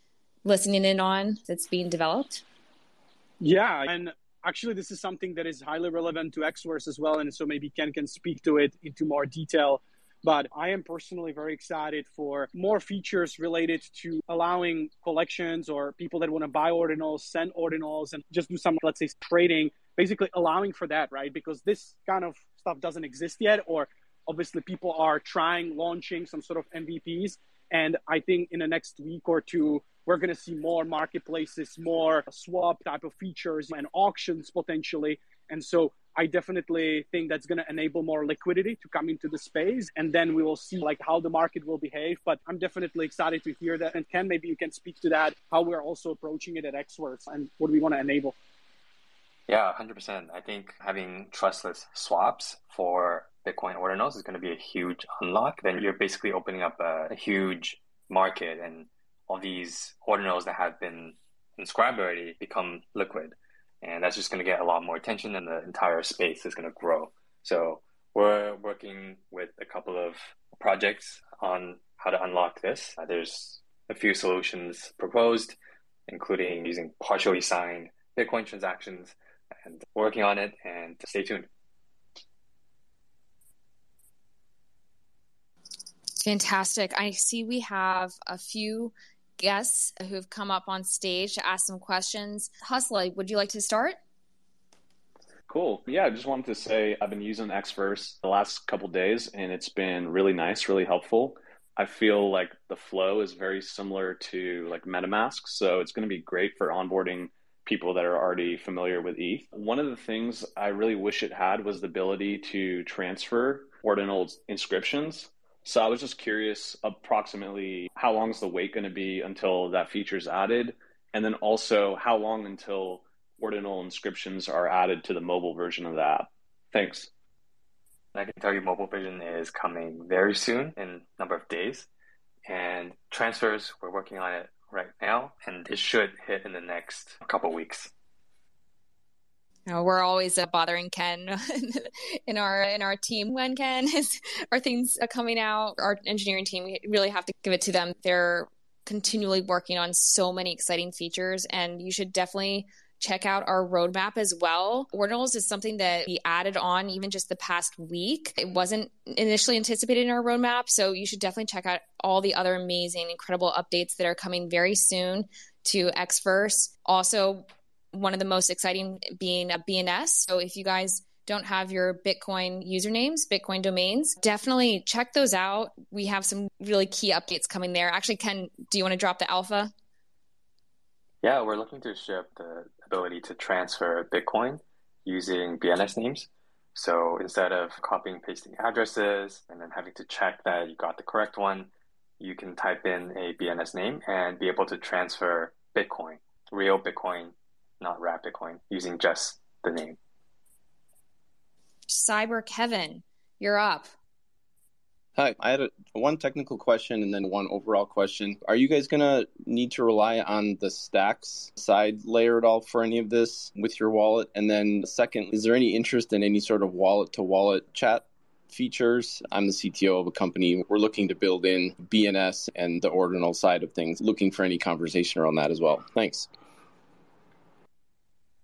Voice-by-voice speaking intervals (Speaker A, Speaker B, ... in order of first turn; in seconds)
Speaker A: 0.4-2.4, 86.2-94.0, 139.7-179.7, 201.9-203.9
Speaker B: 3.4-48.4
Speaker C: 49.5-75.5, 76.1-81.5, 128.1-131.9, 132.4-137.9, 181.2-200.0
Speaker D: 95.5-127.1
Speaker E: 205.2-226.3